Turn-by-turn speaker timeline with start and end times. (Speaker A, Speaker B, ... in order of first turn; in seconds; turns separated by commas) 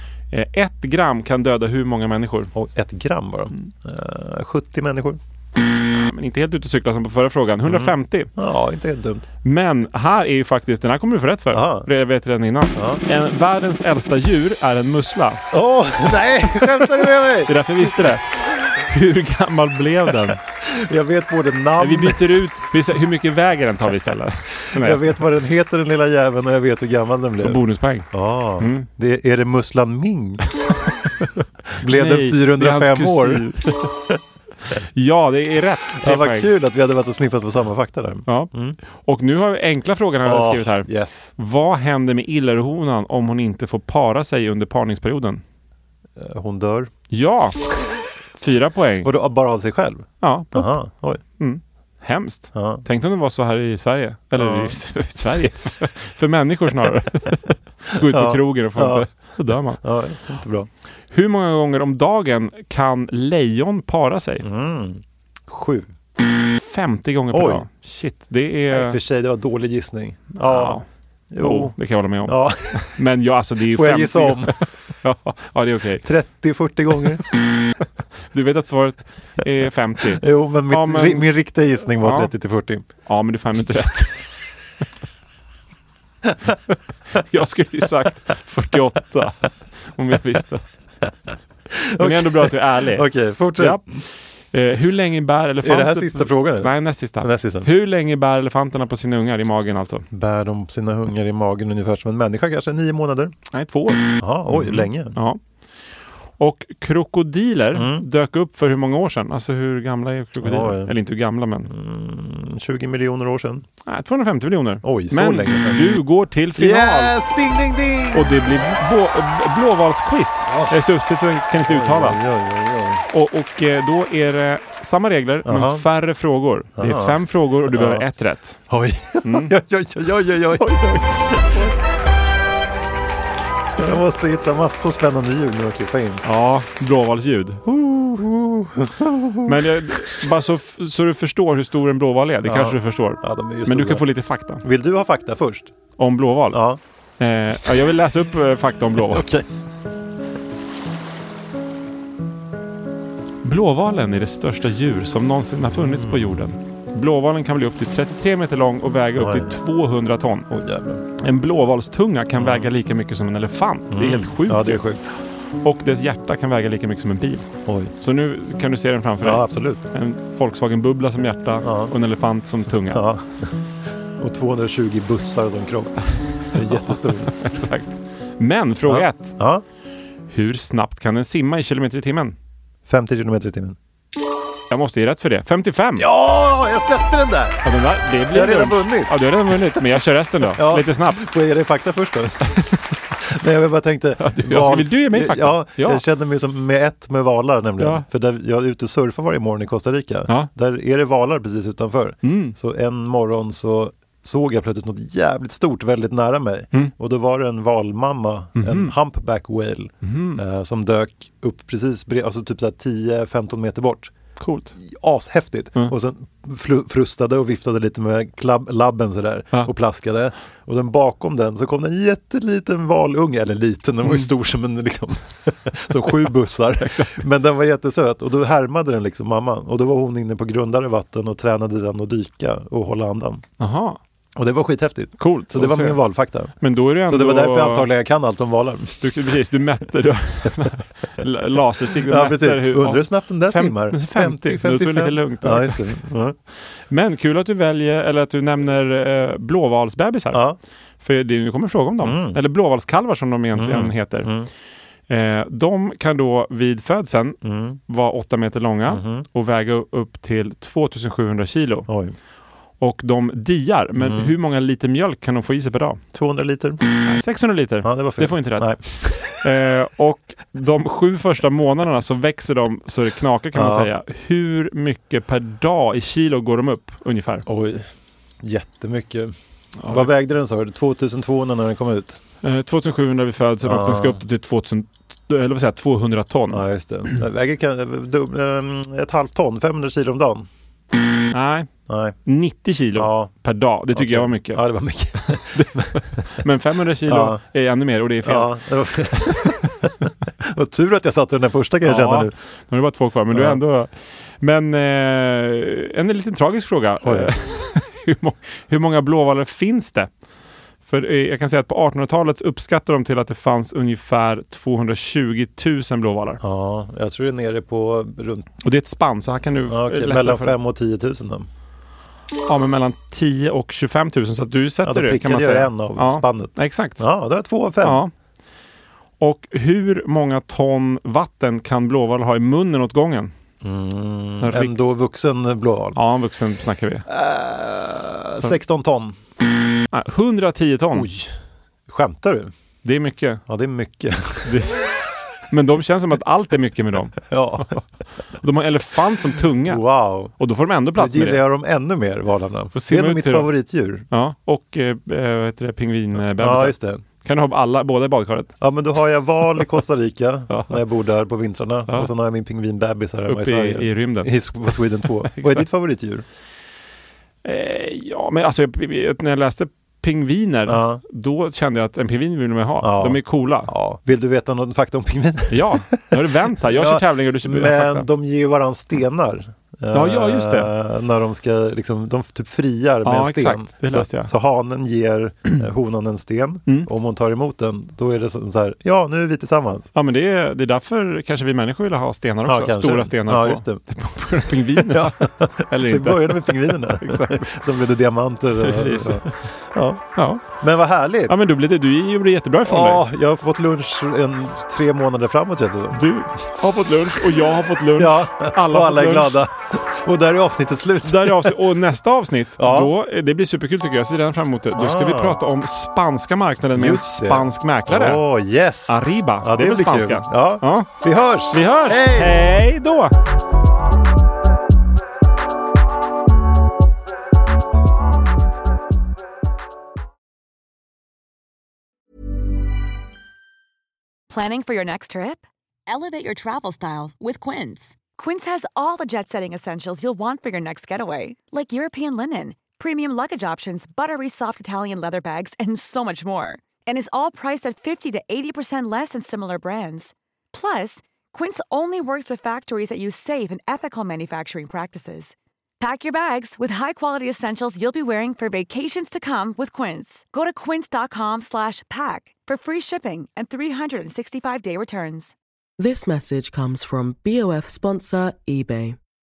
Speaker A: 0.3-2.5, Speaker B: 2.5-5.2, Speaker A: 5.9-8.3, Speaker B: 7.7-9.2, Speaker A: 9.4-15.4, Speaker B: 11.5-11.9, Speaker B: 12.8-13.0, Speaker B: 15.5-18.1, Speaker A: 16.8-20.4, Speaker B: 20.3-22.5, Speaker A: 21.8-25.2, Speaker B: 24.7-30.4, Speaker A: 27.4-28.9, Speaker A: 31.2-33.9, Speaker B: 31.8-33.5, Speaker A: 34.7-36.5, Speaker B: 36.0-38.8, Speaker A: 38.3-45.4, Speaker B: 40.2-41.3, Speaker B: 46.1-46.9, Speaker A: 47.1-49.1, Speaker B: 49.0-51.2, Speaker A: 50.2-50.7, Speaker A: 51.4-59.8, Speaker B: 52.5-52.8, Speaker B: 54.3-54.8, Speaker B: 58.0-59.1, Speaker B: 59.8-60.7, Speaker A: 61.1-64.5, Speaker B: 64.4-65.9, Speaker A: 66.5-69.0, Speaker B: 67.3-67.7, Speaker B: 68.7-73.0, Speaker A: 70.4-70.8, Speaker A: 71.4-76.1, Speaker B: 73.7-74.7, Speaker B: 76.0-77.2, Speaker A: 78.3-81.3, Speaker B: 80.1-82.8, Speaker A: 82.0-82.3, Speaker A: 83.0-84.2, Speaker A: 86.7-90.6, Speaker B: 91.7-94.0, Speaker A: 92.0-100.0, Speaker B: 95.6-97.7, Speaker B: 100.1-103.3, Speaker A: 103.5-105.4, Speaker B: 104.2-105.1, Speaker A: 106.4-111.7, Speaker B: 107.7-108.0, Speaker B: 110.4-110.9, Speaker B: 111.7-113.6, Speaker A: 113.8-117.1, Speaker B: 114.8-116.0, Speaker B: 116.5-118.6, Speaker A: 118.1-122.2, Speaker B: 120.5-120.8, Speaker B: 121.6-123.0, Speaker A: 123.1-128.6, Speaker B: 125.4-125.8, Speaker B: 126.8-128.1, Speaker B: 128.7-131.7, Speaker A: 129.2-129.5, Speaker A: 130.6-131.7, Speaker B: 133.8-136.2, Speaker A: 136.2-137.7, Speaker B: 137.7-140.2, Speaker A: 139.4-144.6, Speaker B: 142.4-144.1, Speaker B: 144.6-145.7, Speaker A: 146.0-146.6, Speaker B: 146.5-146.8, Speaker A: 147.2-149.3, Speaker B: 149.1-149.5, Speaker A: 153.4-160.5, Speaker B: 159.1-159.6, Speaker B: 160.5-161.0, Speaker A: 161.2-173.0, Speaker B: 162.4-162.7, Speaker B: 163.9-165.0, Speaker B: 167.7-167.9, Speaker B: 169.2-169.8, Speaker B: 171.6-171.9, Speaker B: 172.9-173.5, Speaker B: 174.2-177.5, Speaker A: 176.7-179.3, Speaker B: 178.9-179.6, Speaker A: 180.3-182.3, Speaker B: 182.8-183.8, Speaker A: 184.7-186.1, Speaker B: 185.9-187.6, Speaker A: 187.6-191.2, Speaker B: 188.3-189.8, Speaker B: 190.5-192.6, Speaker B: 193.2-214.1, Speaker A: 194.2-196.0, Speaker A: 197.8-198.0, Speaker A: 202.2-202.6, Speaker A: 208.6-208.9, Speaker A: 210.0-210.4, Speaker A: 214.4-214.7, Speaker B: 214.8-233.4, Speaker A: 226.8-227.2, Speaker A: 233.6-234.0, Speaker B: 234.3-239.3, Speaker A: 235.2-236.0, Speaker A: 236.6-237.9, Speaker A: 239.0-246.0, Speaker B: 242.1-246.3, Speaker A: 246.9-250.4, Speaker B: 250.3-250.6, Speaker A: 251.0-254.3, Speaker B: 252.0-252.4, Speaker B: 253.5-254.5, Speaker A: 255.1-261.9, Speaker B: 257.4-257.8, Speaker B: 258.9-259.2, Speaker B: 261.9-262.1, Speaker A: 262.8-266.0, Speaker B: 263.9-264.3, Speaker B: 266.1-266.8, Speaker A: 267.0-277.4, Speaker B: 267.8-269.5, Speaker B: 273.5-273.9, Speaker B: 277.4-277.9, Speaker B: 278.4-279.3, Speaker A: 279.8-280.1, Speaker B: 279.9-282.2, Speaker A: 282.4-286.6, Speaker B: 283.6-284.2, Speaker B: 286.5-290.5, Speaker A: 291.3-291.7, Speaker B: 291.9-292.2, Speaker A: 292.2-294.6, Speaker B: 292.9-293.3, Speaker B: 293.9-296.2, Speaker A: 295.2-298.5, Speaker B: 297.1-297.4, Speaker B: 298.2-302.3, Speaker A: 299.1-299.4, Speaker A: 301.8-310.1, Speaker B: 303.3-303.6, Speaker B: 307.0-307.3, Speaker A: 310.8-316.4, Speaker B: 316.4-318.5, Speaker A: 318.6-320.5, Speaker B: 319.7-321.5, Speaker A: 322.4-327.0, Speaker B: 324.8-328.0, Speaker A: 327.8-328.1, Speaker A: 329.2-333.3, Speaker B: 333.6-336.0, Speaker A: 334.4-334.8, Speaker A: 335.9-337.0, Speaker B: 337.1-339.1, Speaker A: 339.9-341.1, Speaker B: 340.9-341.3, Speaker B: 341.9-342.5, Speaker A: 342.8-343.4, Speaker B: 343.5-344.6, Speaker A: 344.4-344.9, Speaker A: 345.5-347.8, Speaker B: 347.2-347.8, Speaker A: 348.4-349.8, Speaker B: 349.7-350.3, Speaker A: 350.4-351.4, Speaker B: 350.9-354.0, Speaker A: 352.7-353.5, Speaker A: 354.1-358.5, Speaker B: 356.2-357.0, Speaker B: 358.6-366.2, Speaker A: 360.5-360.8, Speaker A: 363.3-364.3, Speaker A: 365.0-365.7, Speaker A: 367.4-373.7, Speaker B: 370.7-371.0, Speaker B: 372.8-389.9, Speaker A: 375.5-378.1, Speaker A: 379.9-380.7, Speaker A: 383.0-384.3, Speaker A: 389.9-397.6, Speaker B: 392.4-393.8, Speaker B: 394.7-401.4, Speaker A: 398.6-399.4, Speaker A: 400.1-400.4, Speaker A: 401.3-403.0, Speaker B: 402.6-406.1, Speaker A: 405.9-409.4, Speaker B: 407.9-411.6, Speaker A: 411.0-418.2, Speaker B: 412.6-412.9, Speaker B: 414.7-415.4, Speaker B: 416.7-422.4, Speaker A: 418.9-420.9, Speaker A: 421.5-423.1, Speaker C: 434.3-465.3, Speaker D: 465.8-469.0